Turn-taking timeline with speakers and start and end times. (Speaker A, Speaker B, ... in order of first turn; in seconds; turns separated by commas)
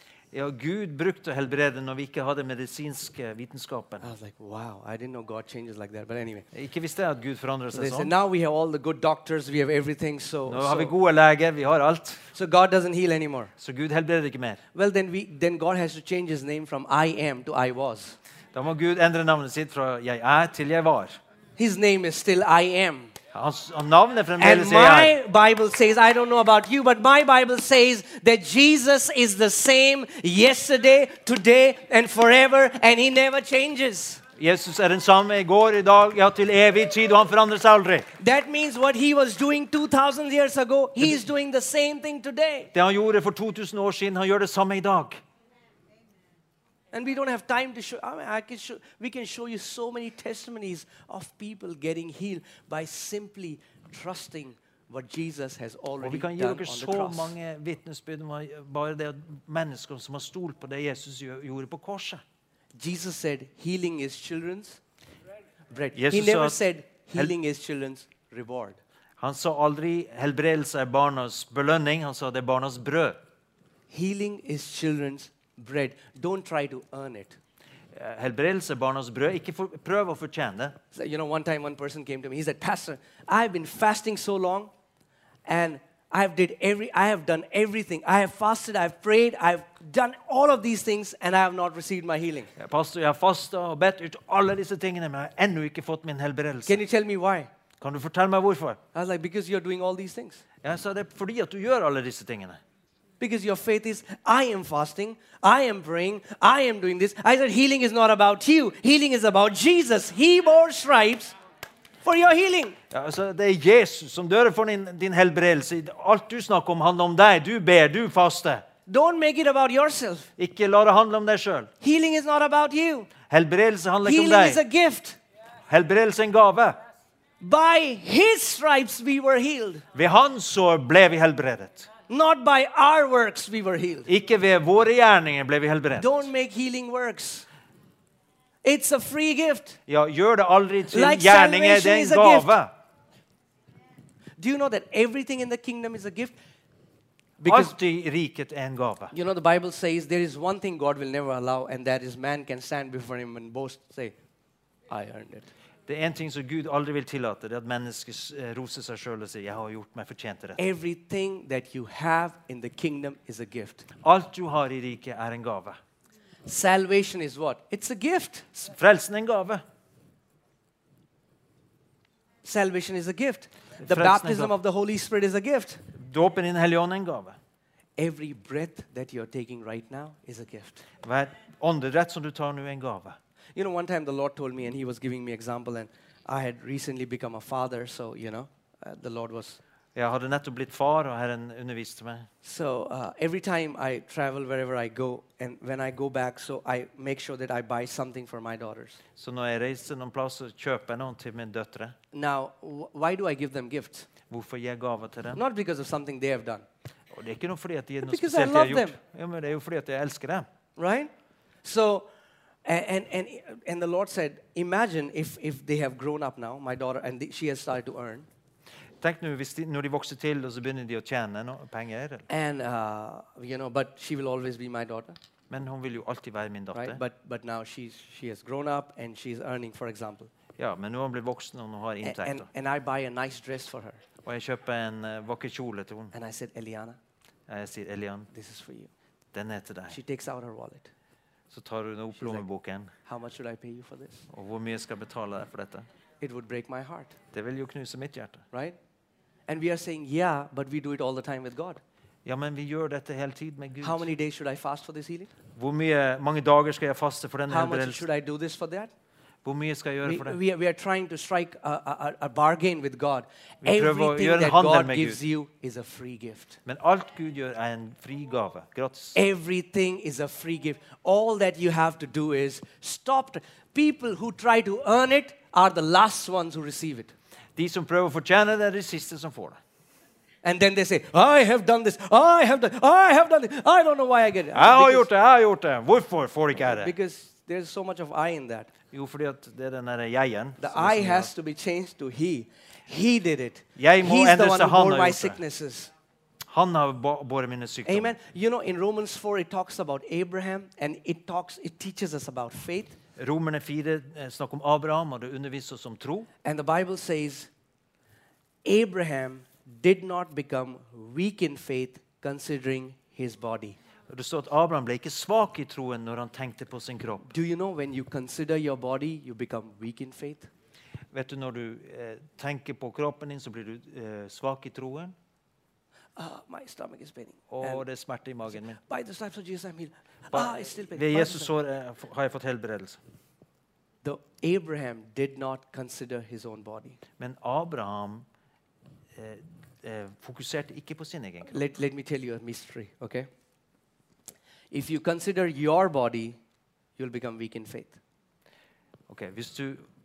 Speaker A: 0.3-4.1, Speaker B: 4.0-6.5, Speaker A: 6.5-8.1, Speaker B: 7.7-10.9, Speaker A: 10.5-12.3, Speaker B: 12.3-13.5, Speaker A: 13.6-14.6, Speaker B: 14.7-18.2, Speaker A: 18.5-21.1, Speaker B: 21.6-23.1, Speaker A: 23.3-25.2, Speaker B: 24.4-34.2, Speaker A: 34.4-38.1, Speaker B: 38.2-42.7, Speaker A: 42.7-45.2, Speaker B: 46.9-57.3, Speaker A: 56.0-62.2, Speaker B: 62.7-64.8, Speaker B: 65.7-68.8, Speaker A: 65.9-66.6, Speaker A: 69.2-73.2, Speaker B: 73.9-77.4, Speaker A: 77.9-80.8, Speaker B: 80.9-84.7, Speaker B: 85.5-92.5, Speaker A: 92.5-96.8, Speaker B: 96.6-97.5, Speaker A: 97.8-98.8, Speaker B: 98.9-100.4, Speaker A: 100.6-102.6, Speaker B: 103.2-111.3, Speaker B: 112.0-112.8, Speaker A: 112.9-118.6, Speaker B: 118.9-120.3, Speaker A: 120.4-121.7, Speaker B: 121.8-123.1, Speaker A: 123.3-124.6, Speaker B: 124.0-125.2, Speaker A: 125.7-126.8, Speaker B: 127.4-129.8, Speaker A: 129.9-131.9, Speaker B: 132.1-134.1, Speaker A: 134.1-136.2, Speaker B: 136.0-137.5, Speaker B: 138.6-139.8, Speaker A: 139.9-142.7, Speaker B: 140.9-142.5, Speaker B: 144.4-146.4, Speaker B: 147.4-147.7, Speaker A: 147.4-149.1, Speaker B: 149.1-154.1, Speaker B: 154.9-155.5, Speaker A: 155.9-160.6, Speaker B: 160.6-163.9, Speaker A: 164.0-165.8, Speaker B: 166.4-168.5, Speaker A: 168.5-169.6, Speaker B: 172.4-175.8, Speaker A: 173.8-174.5, Speaker A: 175.9-177.4, Speaker B: 178.0-180.8, Speaker A: 181.0-183.2, Speaker B: 183.6-189.6, Speaker A: 189.9-192.3, Speaker B: 192.4-199.0, Speaker A: 199.2-201.9, Speaker B: 202.1-204.1, Speaker A: 204.3-205.4, Speaker B: 205.3-206.7, Speaker A: 207.1-210.4, Speaker B: 208.0-208.9, Speaker B: 210.8-211.1, Speaker B: 211.6-212.1, Speaker B: 212.6-218.3, Speaker A: 219.0-222.3, Speaker B: 222.3-225.2, Speaker A: 225.5-227.0, Speaker B: 226.7-230.3, Speaker A: 230.6-232.4, Speaker B: 232.0-234.0, Speaker A: 234.2-236.1, Speaker B: 236.1-237.0, Speaker A: 237.5-238.3, Speaker B: 238.3-238.9, Speaker A: 239.3-240.0, Speaker B: 239.9-240.9, Speaker A: 241.5-242.9, Speaker B: 242.2-242.4, Speaker B: 243.1-244.2, Speaker A: 244.3-245.9, Speaker B: 246.2-247.2, Speaker A: 247.3-248.4, Speaker B: 248.5-248.8, Speaker B: 249.5-251.8, Speaker A: 252.2-254.1, Speaker B: 253.8-255.3, Speaker A: 255.6-258.0, Speaker B: 257.5-258.9, Speaker A: 259.4-260.4, Speaker B: 260.0-266.6, Speaker A: 263.6-265.2, Speaker A: 266.6-269.2, Speaker B: 269.1-277.1, Speaker A: 277.6-279.6, Speaker B: 280.4-285.1, Speaker A: 284.5-286.9, Speaker B: 286.6-288.7, Speaker A: 288.9-291.3, Speaker B: 290.6-295.9, Speaker A: 293.8-295.4, Speaker A: 296.5-298.1, Speaker B: 297.9-303.0, Speaker A: 303.2-306.3, Speaker B: 306.4-307.5, Speaker B: 308.6-313.8, Speaker A: 314.1-317.3, Speaker B: 317.3-320.5, Speaker A: 321.1-325.1, Speaker B: 326.2-327.8, Speaker A: 327.5-328.8, Speaker B: 328.7-331.5, Speaker A: 330.3-333.0, Speaker B: 334.0-337.0, Speaker A: 337.2-338.2, Speaker A: 339.1-341.7, Speaker B: 341.4-343.3, Speaker B: 344.7-346.4, Speaker B: 347.0-348.0, Speaker A: 349.1-349.8